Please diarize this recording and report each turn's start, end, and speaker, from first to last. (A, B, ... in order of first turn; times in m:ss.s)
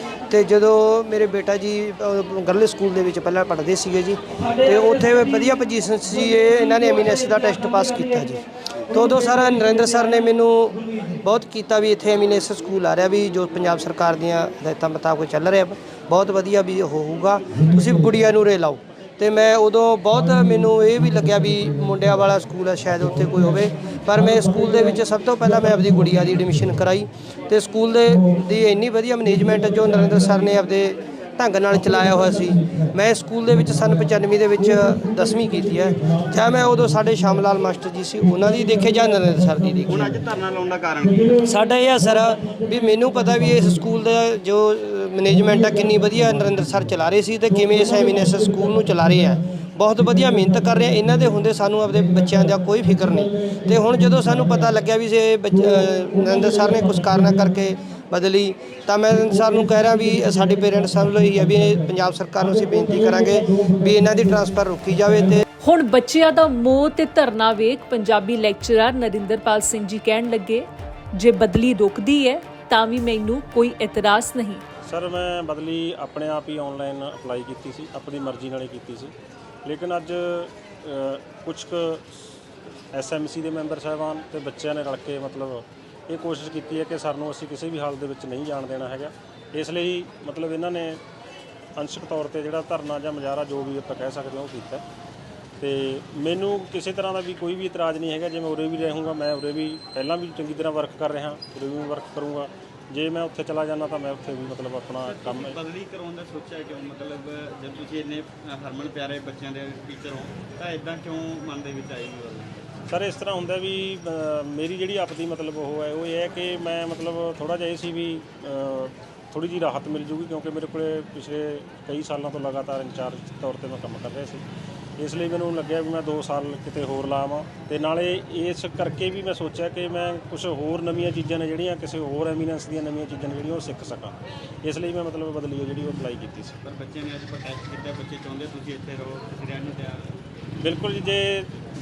0:00.3-0:40.2 A
0:39.9-0:41.5 B
0:41.5-1:05.4 A
1:05.6-1:14.6 C
1:14.9-1:19.1 D
1:19.6-1:22.0 D
1:22.9-1:31.0 D
1:31.8-1:34.8 D
1:35.6-1:45.6 D
1:45.0-1:52.8 B
1:52.9-2:04.4 D
2:05.0-2:16.6 D
2:16.6-2:20.1 B
2:20.6-2:21.5 D